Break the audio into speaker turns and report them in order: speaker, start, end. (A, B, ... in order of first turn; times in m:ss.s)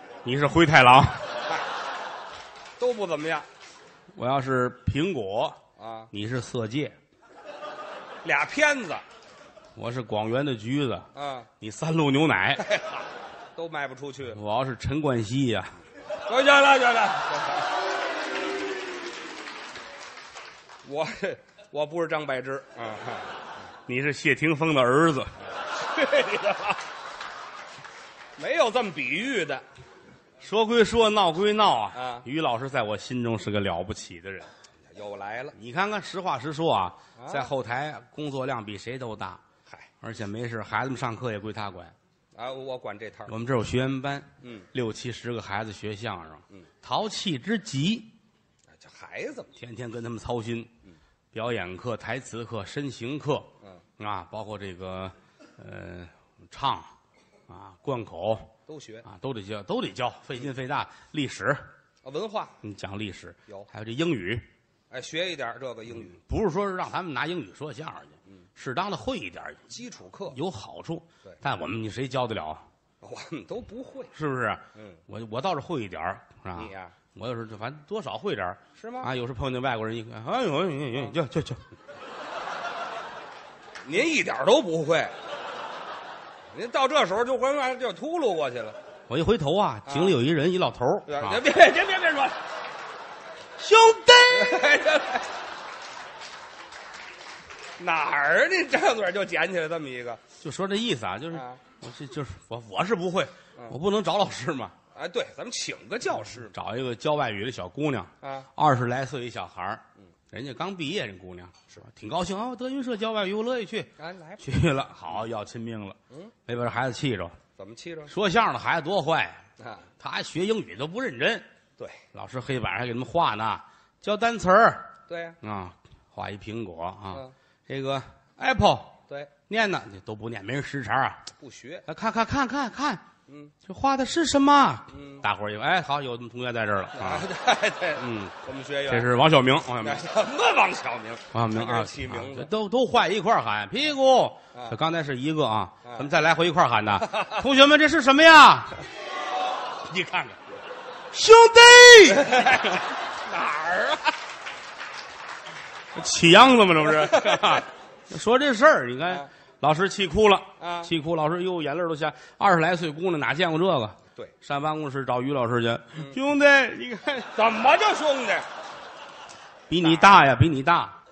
0:00.2-0:01.3 A
0:02.8-0:03.4 B
0:04.1-0:05.6 A
0:05.8-0:06.1 B
0:06.1-0:07.0 A
0:08.2-0:09.0 B
0:09.8-0:11.1 A
0:11.1-0:11.5 B
0:11.6-0:12.7 A
0:12.6-0:13.0 B
0:13.6-0:14.4 B
0:14.3-0:15.7 A
0:16.3-0:17.7 B
0:20.8-0:23.3 B
0:23.9-0:25.3 A
0:25.7-0:26.8 B
0:28.4-0:29.6 B
0:30.4-0:34.5 A
0:31.9-0:32.2 B
0:34.9-0:35.6 B
0:35.6-0:39.4 A
0:37.2-0:37.5 B
0:40.0-0:41.9 A
0:42.3-0:43.3 B
0:43.3-0:48.1 A
0:44.4-0:44.7 B
0:48.8-0:49.5 B
0:49.6-0:50.7 A
0:51.3-0:56.9 A
0:57.5-0:58.5 A
0:58.7-0:59.0 B
0:59.0-1:01.7 A
1:02.0-1:02.6 B
1:02.6-1:04.4 A
1:04.9-1:06.2 B
1:06.0-1:09.7 A
1:09.7-1:10.4 B
1:10.3-1:12.6 A
1:13.0-1:14.1 B
1:14.1-1:21.7 A
1:14.7-1:15.0 B
1:16.5-1:16.9 B
1:18.8-1:19.1 B
1:23.8-1:25.1 B
1:26.5-1:28.8 B
1:29.1-1:31.4 A
1:29.8-1:30.2 B
1:31.1-1:32.4 B
1:33.6-1:34.8 A
1:34.3-1:35.3 B
1:37.8-1:40.2 B
1:40.4-1:44.7 A
1:41.3-1:41.6 B
1:44.9-1:46.5 B
1:46.4-1:57.4 A
1:48.2-1:48.5 B
1:54.0-1:54.4 B
1:57.6-1:58.1 B
1:58.1-1:59.4 A
1:59.6-1:59.9 B
2:00.0-2:01.4 A
2:02.1-2:04.9 A
2:05.1-2:05.4 B
2:05.4-2:09.0 A
2:09.5-2:11.2 A
2:11.4-2:11.8 B
2:11.9-2:13.0 A
2:13.3-2:13.5 B
2:13.6-2:17.3 A
2:14.9-2:15.2 B
2:16.9-2:19.1 B
2:18.0-2:18.3 A
2:18.9-2:20.0 A
2:19.8-2:22.5 B
2:21.3-2:28.8 A
2:27.0-2:27.4 B
2:29.8-2:30.4 A
2:31.1-2:32.8 A
2:32.2-2:34.2 B
2:35.9-2:47.3 A
2:36.8-2:37.6 B
2:40.6-2:40.9 B
2:47.3-2:48.5 B
2:49.7-2:51.0 A
2:49.8-2:50.1 B